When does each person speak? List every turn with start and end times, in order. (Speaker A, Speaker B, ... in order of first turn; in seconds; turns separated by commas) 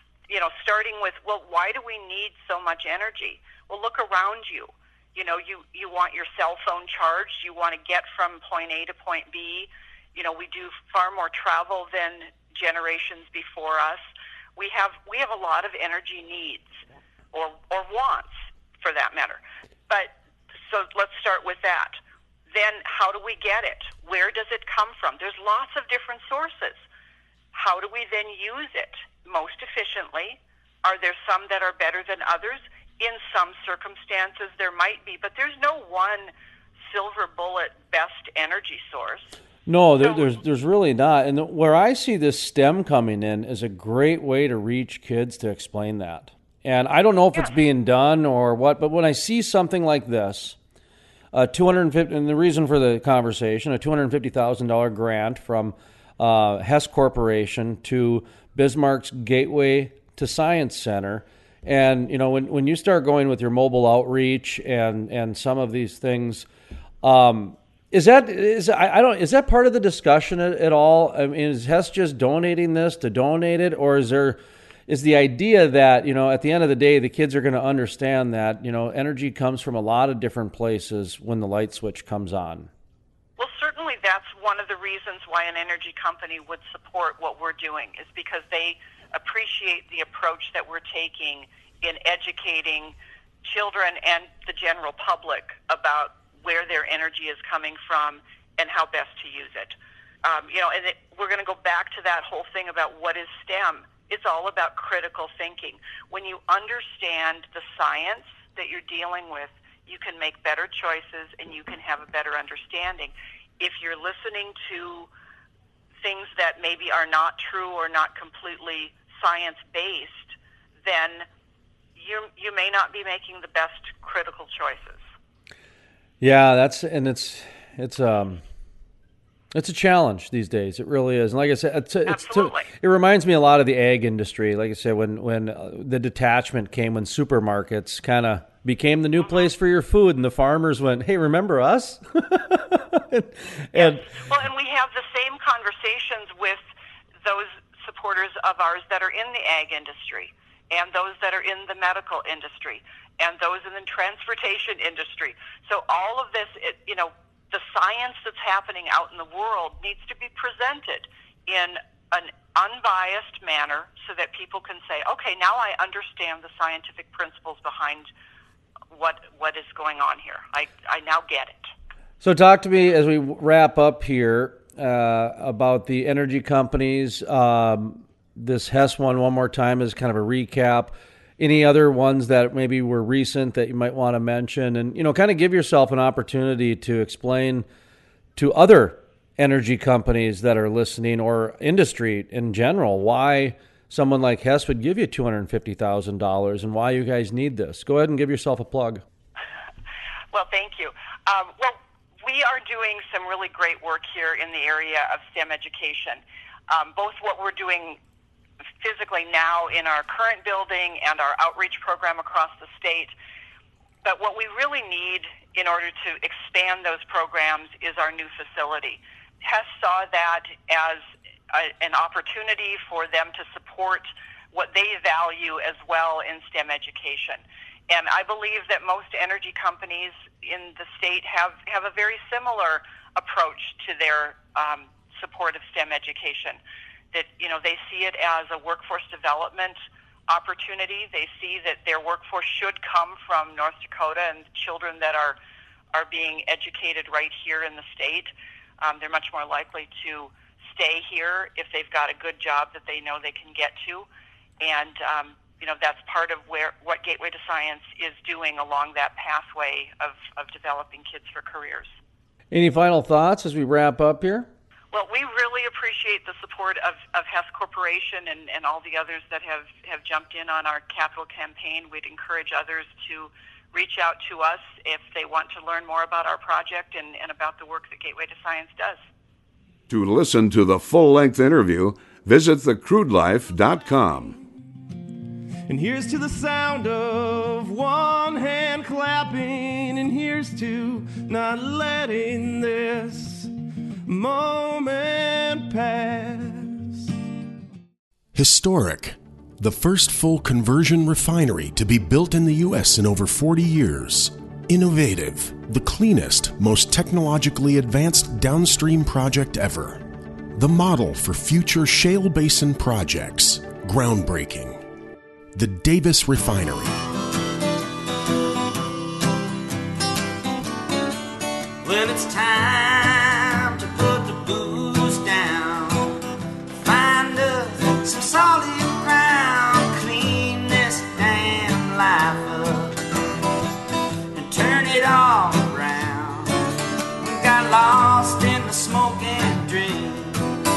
Speaker A: 0.3-14.1, Speaker A: 14.6-16.7, Speaker A: 17.3-20.1, Speaker A: 20.6-22.0, Speaker A: 22.5-26.8, Speaker A: 27.5-36.3, Speaker A: 36.9-39.3, Speaker B: 39.7-50.6, Speaker A: 40.0-40.3, Speaker B: 51.3-66.5, Speaker B: 67.0-82.7, Speaker A: 83.4-115.1, Speaker A: 116.0-121.3, Speaker A: 122.0-125.0, Speaker B: 126.2-128.4, Speaker B: 129.5-144.0, Speaker A: 132.1-132.7, Speaker A: 143.8-146.6, Speaker A: 147.2-168.1, Speaker A: 168.9-171.7, Speaker B: 172.2-187.7, Speaker B: 188.4-199.0, Speaker A: 200.3-208.0, Speaker A: 208.8-213.1, Speaker A: 214.0-236.6, Speaker A: 237.1-239.8, Speaker A: 240.3-245.4, Speaker A: 245.9-254.1, Speaker A: 254.6-261.9, Speaker B: 262.5-264.5, Speaker A: 264.9-279.0, Speaker C: 279.9-284.4, Speaker D: 285.7-293.5, Speaker D: 294.1-297.0, Speaker E: 298.3-310.0, Speaker E: 310.6-314.8, Speaker E: 315.6-316.9, Speaker F: 321.8-326.1, Speaker F: 326.8-333.0, Speaker F: 334.3-336.6, Speaker F: 337.2-340.4